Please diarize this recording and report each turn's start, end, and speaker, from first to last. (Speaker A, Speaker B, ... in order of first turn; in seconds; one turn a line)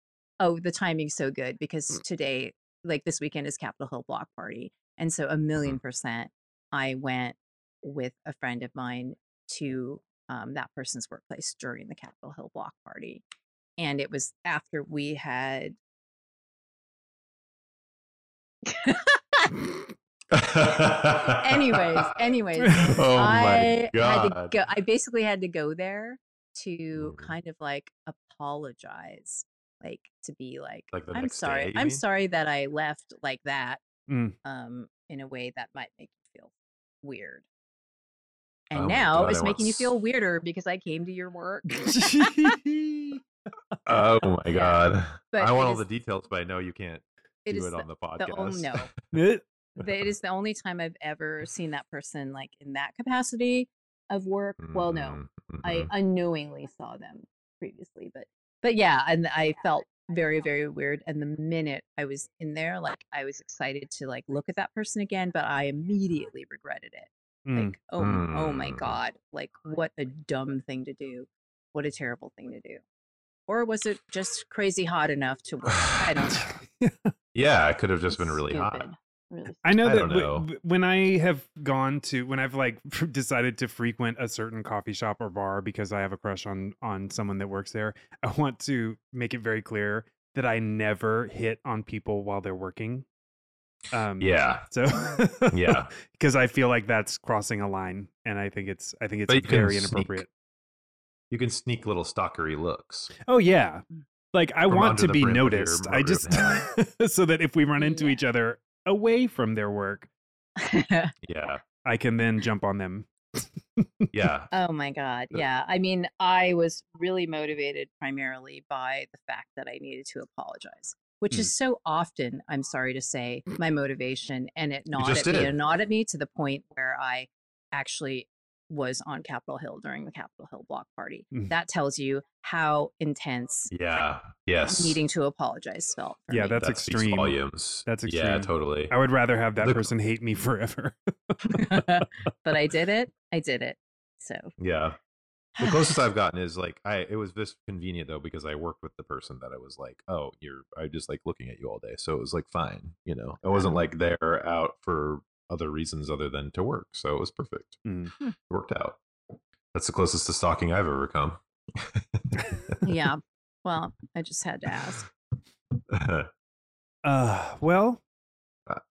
Speaker A: 0.4-13.2
Speaker A: 13.8-15.8
Speaker A: 18.6-19.6
Speaker B: 20.3-22.1
Speaker A: 21.2-33.8
Speaker C: 22.6-23.0
Speaker B: 22.8-24.5
Speaker B: 26.9-27.3
Speaker B: 30.9-32.0
Speaker C: 34.1-34.4
Speaker A: 34.4-37.5
Speaker A: 38.7-42.5
Speaker B: 38.7-39.9
Speaker C: 41.8-43.2
Speaker B: 43.9-48.9
Speaker A: 44.5-45.8
Speaker A: 47.4-48.9
Speaker C: 49.1-49.4
Speaker A: 49.8-72.8
Speaker B: 54.6-55.9
Speaker C: 67.5-67.7
Speaker B: 68.0-69.0
Speaker A: 73.5-76.5
Speaker B: 75.7-76.3
Speaker C: 76.4-77.1
Speaker B: 77.3-78.9
Speaker A: 78.1-79.6
Speaker C: 79.6-93.0
Speaker B: 79.8-80.5
Speaker C: 93.9-100.3
Speaker B: 94.2-94.7
Speaker B: 95.5-95.9
Speaker B: 99.3-100.2
Speaker B: 101.3-103.1
Speaker C: 103.2-110.1
Speaker B: 104.7-106.6
Speaker A: 107.8-108.2
Speaker A: 110.6-111.1
Speaker B: 111.2-111.6
Speaker C: 111.8-114.1
Speaker B: 114.1-114.5
Speaker A: 114.5-133.7
Speaker B: 124.9-125.5
Speaker B: 133.7-135.0
Speaker A: 134.6-136.6
Speaker C: 136.3-142.1
Speaker B: 136.6-138.9
Speaker B: 139.6-139.9
Speaker A: 141.4-144.5
Speaker B: 144.6-145.0
Speaker B: 145.6-157.8
Speaker A: 145.6-145.9
Speaker A: 153.5-153.8
Speaker C: 157.8-158.1
Speaker B: 158.5-159.0
Speaker B: 159.7-162.8
Speaker A: 162.8-165.1
Speaker B: 165.9-166.3
Speaker C: 167.0-168.0